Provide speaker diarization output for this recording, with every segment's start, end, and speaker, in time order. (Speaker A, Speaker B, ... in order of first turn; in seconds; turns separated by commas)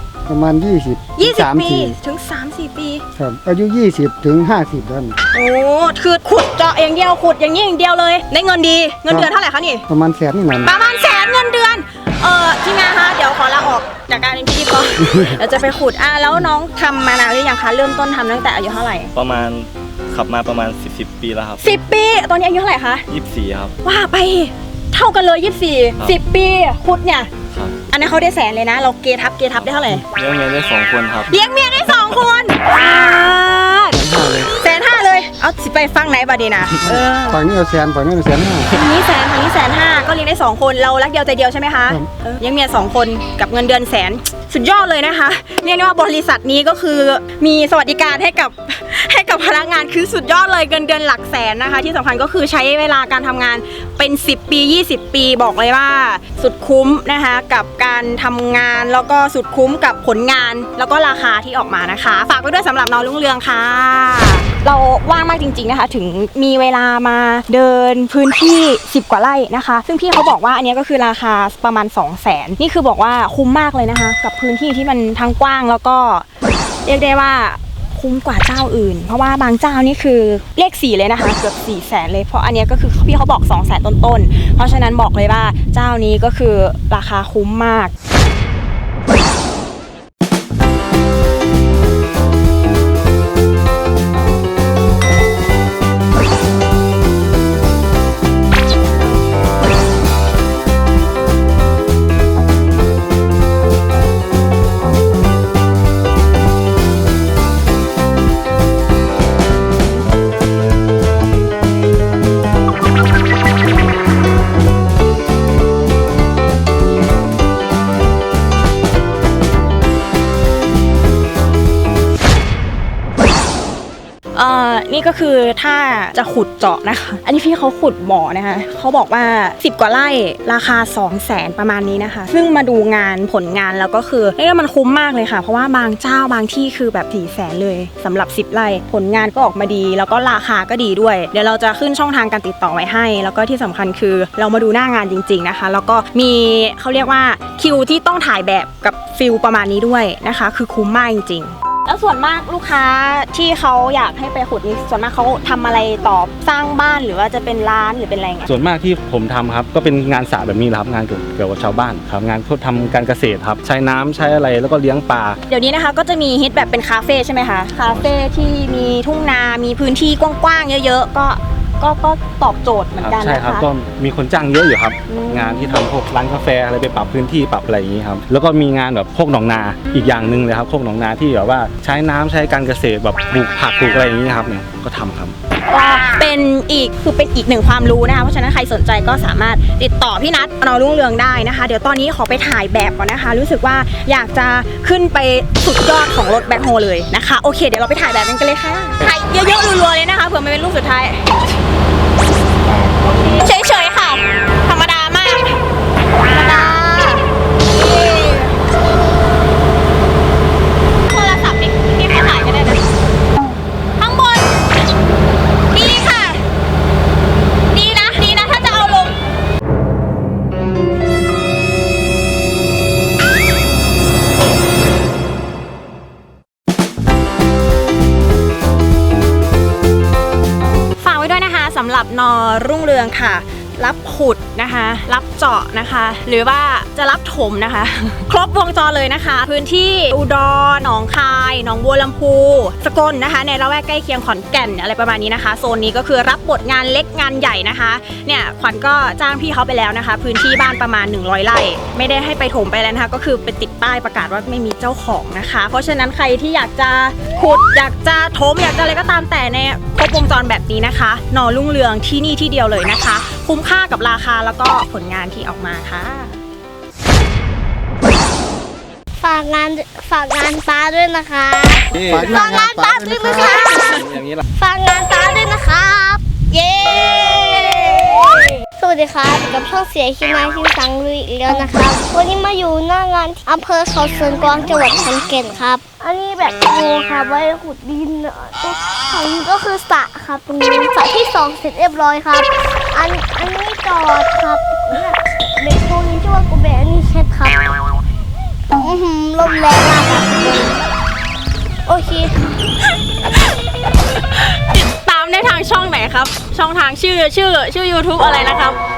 Speaker A: 0.3-1.9, Speaker B: 1.2-3.0, Speaker A: 3.2-5.2, Speaker B: 5.3-9.8, Speaker A: 9.9-10.7, Speaker B: 10.6-19.1, Speaker C: 19.1-21.6, Speaker B: 21.6-23.0, Speaker C: 23.1-23.7, Speaker B: 23.8-27.3, Speaker C: 27.5-27.7, Speaker B: 27.9-30.0, Speaker C: 29.5-31.3, Speaker B: 31.3-34.0, Speaker A: 33.9-34.5, Speaker B: 34.6-37.4, Speaker A: 36.7-38.7, Speaker B: 38.7-76.2, Speaker B: 76.8-87.9, Speaker B: 124.3-158.5, Speaker D: 158.5-165.4, Speaker B: 165.5-173.6, Speaker D: 173.0-185.3, Speaker B: 175.1-175.8, Speaker B: 185.7-201.3, Speaker B: 202.8-205.6, Speaker B: 206.3-208.5, Speaker B: 211.1-212.8, Speaker B: 214.0-214.6, Speaker B: 215.7-216.4, Speaker B: 217.7-219.2, Speaker B: 231.0-266.4, Speaker E: 269.2-297.6, Speaker E: 298.7-300.8, Speaker E: 301.9-302.4, Speaker B: 304.3-308.8